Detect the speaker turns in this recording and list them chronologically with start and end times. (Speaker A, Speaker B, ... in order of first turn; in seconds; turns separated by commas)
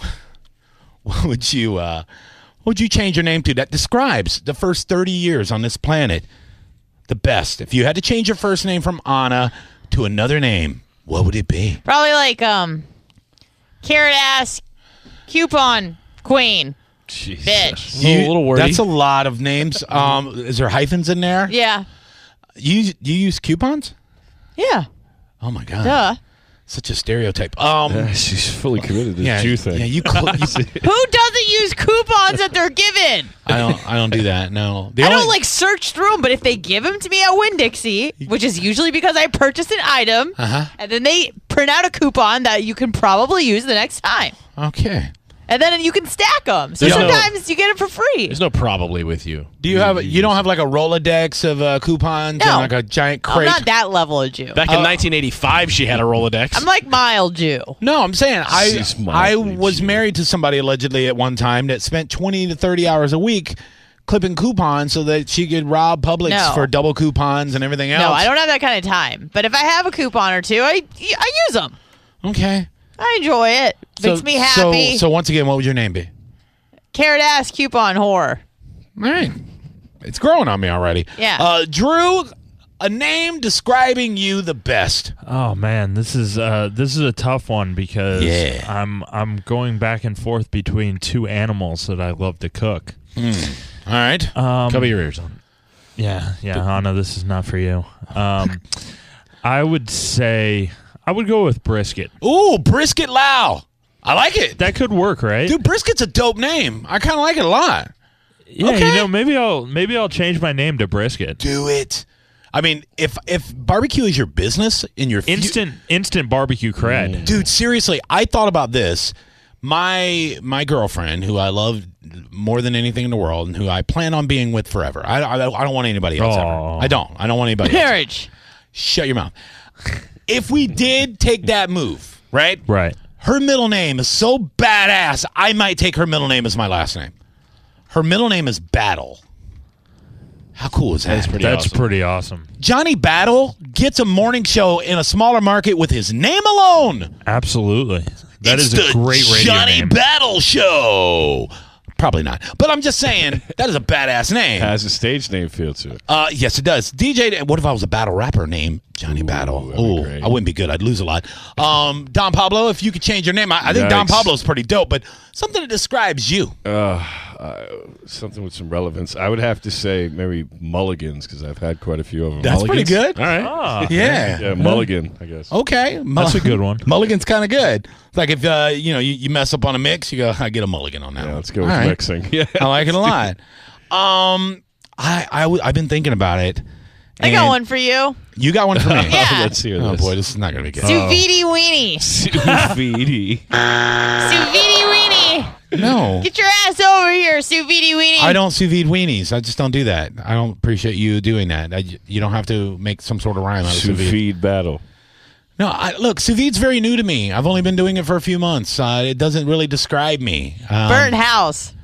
Speaker A: 1.0-2.0, Speaker A: 2.6-6.3, Speaker A: 7.1-11.8, Speaker B: 11.8-12.8, Speaker B: 13.8-14.6, Speaker B: 15.3-16.8, Speaker C: 17.1-17.9, Speaker B: 17.4-17.9, Speaker D: 17.9-18.8, Speaker A: 18.0-21.5, Speaker B: 21.5-21.8, Speaker A: 22.6-23.9, Speaker B: 24.6-24.9, Speaker A: 25.4-26.1, Speaker B: 25.8-26.2, Speaker A: 26.7-28.1, Speaker C: 27.9-30.8, Speaker A: 29.2-30.7, Speaker B: 30.8-33.3, Speaker A: 33.5-35.3, Speaker B: 35.0-44.4, Speaker A: 40.4-40.7, Speaker A: 44.6-45.1, Speaker B: 45.5-48.4, Speaker D: 46.8-47.3, Speaker A: 46.9-47.2, Speaker D: 48.3-49.5, Speaker A: 49.6-53.7, Speaker C: 49.7-50.4, Speaker B: 52.4-52.7, Speaker B: 53.2-54.7, Speaker D: 54.5-56.6, Speaker A: 54.7-55.0, Speaker B: 56.5-57.8, Speaker A: 57.8-68.3, Speaker C: 58.5-60.0, Speaker B: 66.2-66.7, Speaker B: 67.9-71.8, Speaker A: 72.2-72.7, Speaker B: 73.0-75.0, Speaker A: 74.0-76.1, Speaker B: 76.9-78.4, Speaker A: 79.0-79.3, Speaker A: 80.0-85.1, Speaker B: 81.2-81.5, Speaker E: 85.2-93.0, Speaker A: 88.1-88.7, Speaker A: 93.2-94.3, Speaker E: 94.3-95.0, Speaker D: 94.7-95.4, Speaker E: 96.0-98.8, Speaker E: 99.4-102.1, Speaker A: 102.2-104.6, Speaker E: 104.6-105.6, Speaker A: 105.5-107.9, Speaker E: 108.5-111.4, Speaker A: 108.6-109.1, Speaker A: 111.4-115.6, Speaker E: 115.2-117.4, Speaker A: 117.2-128.0, Speaker E: 126.2-127.0, Speaker B: 127.6-128.3, Speaker A: 128.7-129.3, Speaker A: 130.2-132.6, Speaker E: 132.7-133.0, Speaker A: 133.2-137.1, Speaker A: 137.9-139.2, Speaker A: 140.6-141.5, Speaker D: 141.1-141.9, Speaker E: 141.4-142.5, Speaker A: 142.6-147.1, Speaker E: 147.2-150.0, Speaker A: 148.4-154.7, Speaker C: 154.6-156.0, Speaker A: 156.1-166.5, Speaker C: 159.1-160.3, Speaker C: 163.6-164.3, Speaker C: 166.6-173.0, Speaker A: 172.4-173.2, Speaker D: 172.6-173.5, Speaker E: 173.4-174.7, Speaker A: 173.8-174.8, Speaker C: 173.9-175.5, Speaker A: 175.5-182.0, Speaker E: 176.2-176.9, Speaker C: 181.2-183.2, Speaker A: 182.5-183.4, Speaker A: 183.9-186.6, Speaker A: 187.2-187.6, Speaker B: 187.2-188.2, Speaker A: 188.3-189.2, Speaker C: 188.7-190.2, Speaker B: 189.1-189.6, Speaker A: 189.7-191.1, Speaker B: 190.8-192.1, Speaker E: 190.8-191.2, Speaker C: 192.0-193.4, Speaker B: 194.2-198.4, Speaker A: 195.7-196.3, Speaker A: 198.2-204.2, Speaker C: 203.6-204.8, Speaker A: 205.6-211.2, Speaker B: 210.8-211.7